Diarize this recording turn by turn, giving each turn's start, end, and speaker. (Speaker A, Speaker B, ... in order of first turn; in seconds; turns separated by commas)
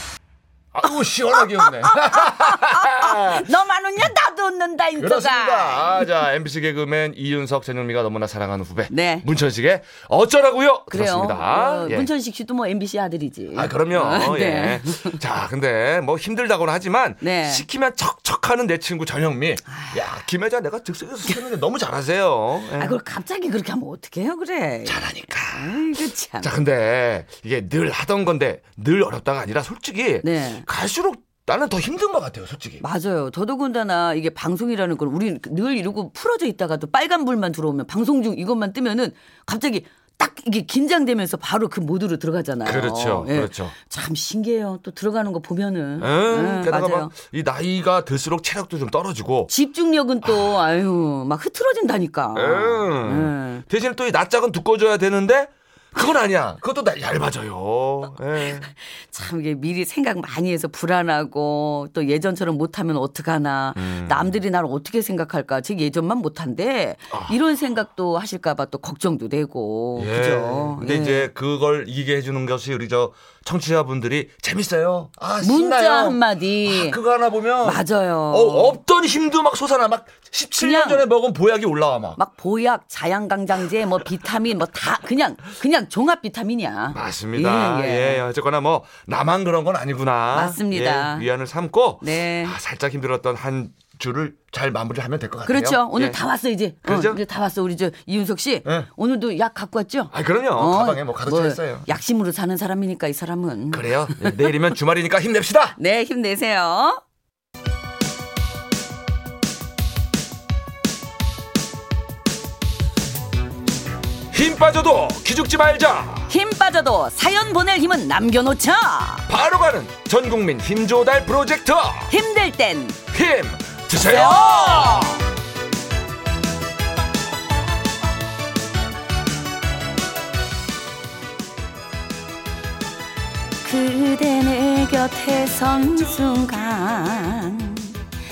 Speaker A: 0.7-3.5, Speaker B: 1.3-6.1, Speaker A: 5.0-12.1, Speaker B: 8.9-9.3, Speaker B: 10.9-15.2, Speaker A: 13.5-23.0, Speaker B: 17.2-17.6, Speaker B: 19.7-20.0, Speaker B: 22.7-26.5, Speaker A: 24.9-32.8, Speaker B: 30.2-30.6, Speaker B: 32.8-47.1, Speaker A: 42.6-43.7, Speaker A: 46.0-49.5, Speaker B: 49.5-53.6, Speaker A: 50.2-50.6, Speaker A: 52.3-58.7, Speaker B: 58.8-71.3, Speaker A: 63.8-64.4, Speaker A: 70.0-82.2, Speaker B: 75.4-77.0, Speaker B: 77.6-78.8, Speaker B: 80.6-81.0, Speaker B: 82.2-88.2, Speaker A: 86.9-96.2, Speaker B: 90.3-91.3, Speaker B: 92.0-92.6, Speaker B: 95.5-104.5, Speaker A: 96.8-97.2, Speaker A: 100.1-101.9, Speaker A: 103.7-105.8, Speaker B: 105.8-107.0, Speaker A: 114.3-116.3, Speaker B: 116.3-119.3, Speaker A: 119.3-122.1, Speaker B: 122.1-123.0, Speaker A: 123.1-125.2, Speaker B: 124.0-125.2, Speaker B: 133.6-138.0